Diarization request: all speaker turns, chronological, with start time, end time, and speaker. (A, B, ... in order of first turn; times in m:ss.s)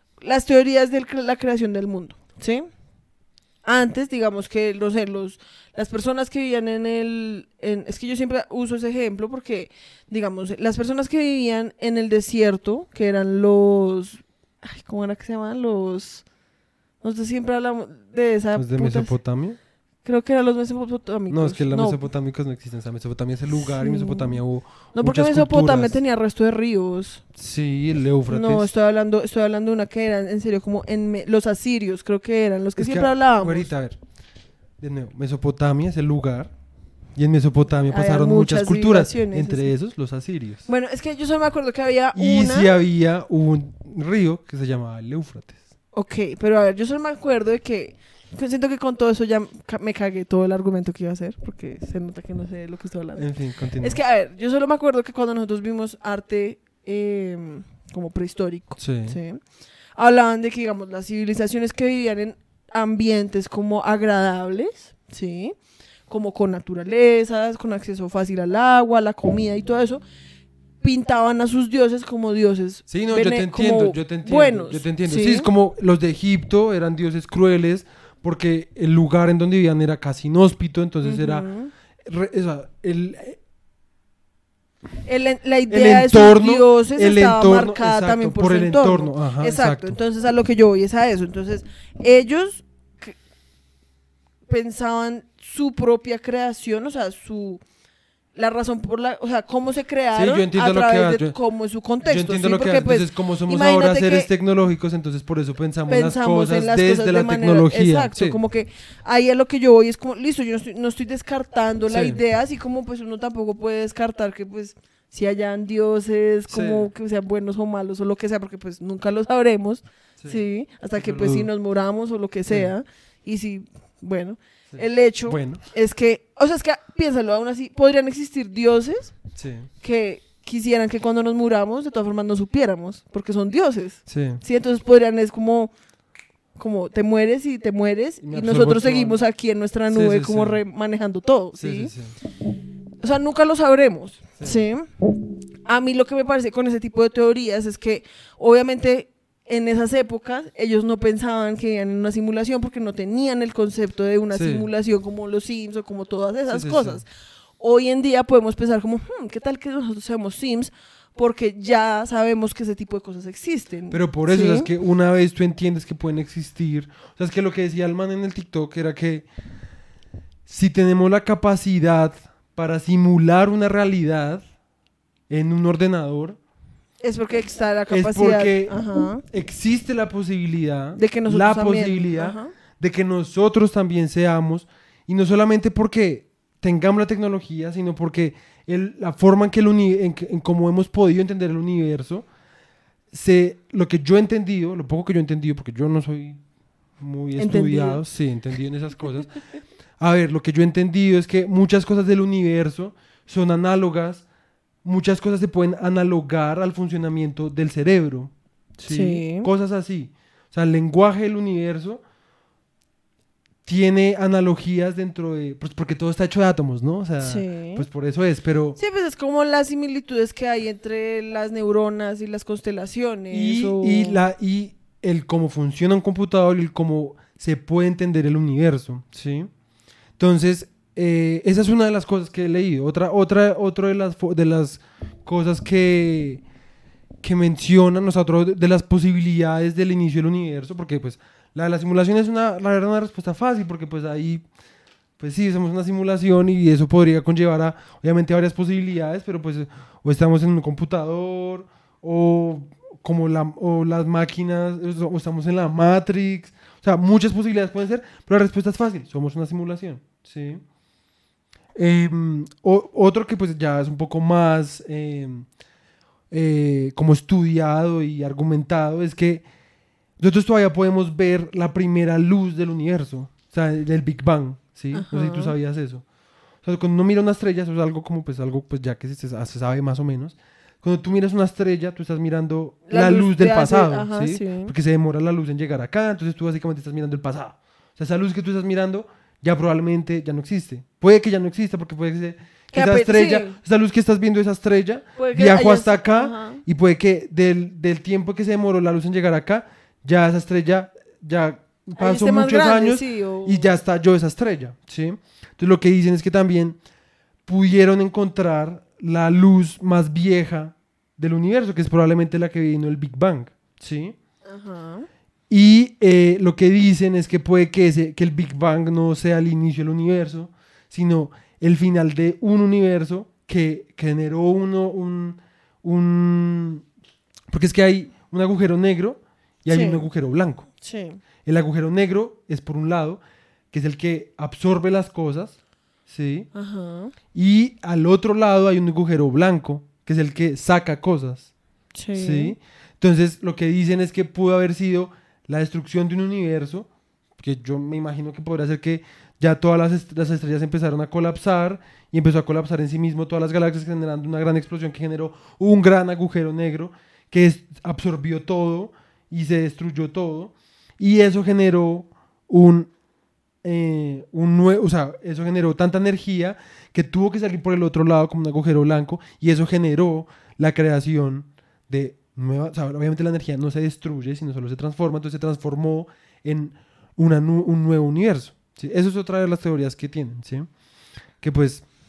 0:00.2-0:02.7 A
0:03.6-0:16.2 A
0:17.0-0:19.2 A
0:18.5-0:19.6 B
0:20.0-0:22.0 A
0:21.3-0:26.0 B
0:23.5-0:24.4 A
0:24.9-0:27.2 A
0:27.4-0:28.7 B
0:28.3-0:33.7 A
0:32.8-0:34.0 B
0:34.8-0:36.5 B
0:37.1-0:40.7 B
0:37.9-0:39.7 A
0:40.6-0:42.7 A
0:42.1-0:45.6 B
0:45.9-0:53.3 A
0:53.2-0:54.0 B
0:53.8-0:59.4 A
0:58.8-0:59.2 B
0:59.9-1:05.6 A
1:06.1-1:10.0 A
1:10.8-1:15.5 A
1:12.9-1:21.5 B
1:21.0-1:21.7 A
1:22.0-1:23.4 B
1:25.0-1:33.2 A
1:25.7-1:30.0 B
1:34.5-1:37.6 A
1:38.3-1:44.3 A
1:40.1-1:41.4 B
1:42.0-1:48.4 B
1:45.9-2:09.2 A
1:51.9-1:52.2 B
1:56.5-1:56.9 B
2:00.9-2:01.5 B
2:02.5-2:02.7 B
2:04.7-2:05.6 B
2:09.4-2:09.7 B
2:09.8-2:15.7 A
2:14.1-2:14.4 B
2:16.6-2:21.9 A
2:18.2-2:19.2 B
2:19.9-2:20.6 B
2:21.6-2:22.2 B
2:23.0-2:24.9 A
2:24.4-2:24.6 B
2:25.6-2:37.1 A
2:34.3-2:34.7 B
2:36.5-2:37.0 B
2:37.6-2:44.7 A
2:43.9-2:49.3 B
2:50.4-2:54.4 B
2:55.3-2:56.4 B
2:57.0-2:59.2 A
2:57.9-3:12.3 B
3:01.0-3:02.5 A
3:13.1-3:16.4 B
3:17.0-3:19.4 B
3:17.4-3:18.0 A
3:20.0-3:24.2 B
3:24.8-3:32.0 B
3:28.8-3:29.5 A
3:33.6-3:38.8 B
3:37.2-3:37.8 A
3:38.8-3:44.2 A
3:43.3-3:49.5 B
3:50.2-3:56.4 B
3:57.2-4:04.4 B
4:05.2-4:20.6 B
4:21.7-4:25.5 B
4:26.3-4:29.5 B
4:30.2-4:36.0 B
4:34.9-4:35.5 A
4:36.6-5:06.8 B
4:42.9-4:44.7 A
4:52.7-4:53.6 A
4:55.2-4:56.6 A
5:02.0-5:03.7 A
5:07.4-5:14.1 B
5:14.4-5:15.1 A
5:15.5-5:26.8 B
5:27.5-5:30.7 B
5:29.7-5:30.0 A
5:30.8-5:31.2 A
5:31.4-5:36.5 B
5:36.5-5:37.1 A
5:37.3-5:41.5 B
5:41.9-5:42.6 A
5:42.1-6:02.9 B
6:03.6-6:20.7 B
6:21.4-6:21.9 B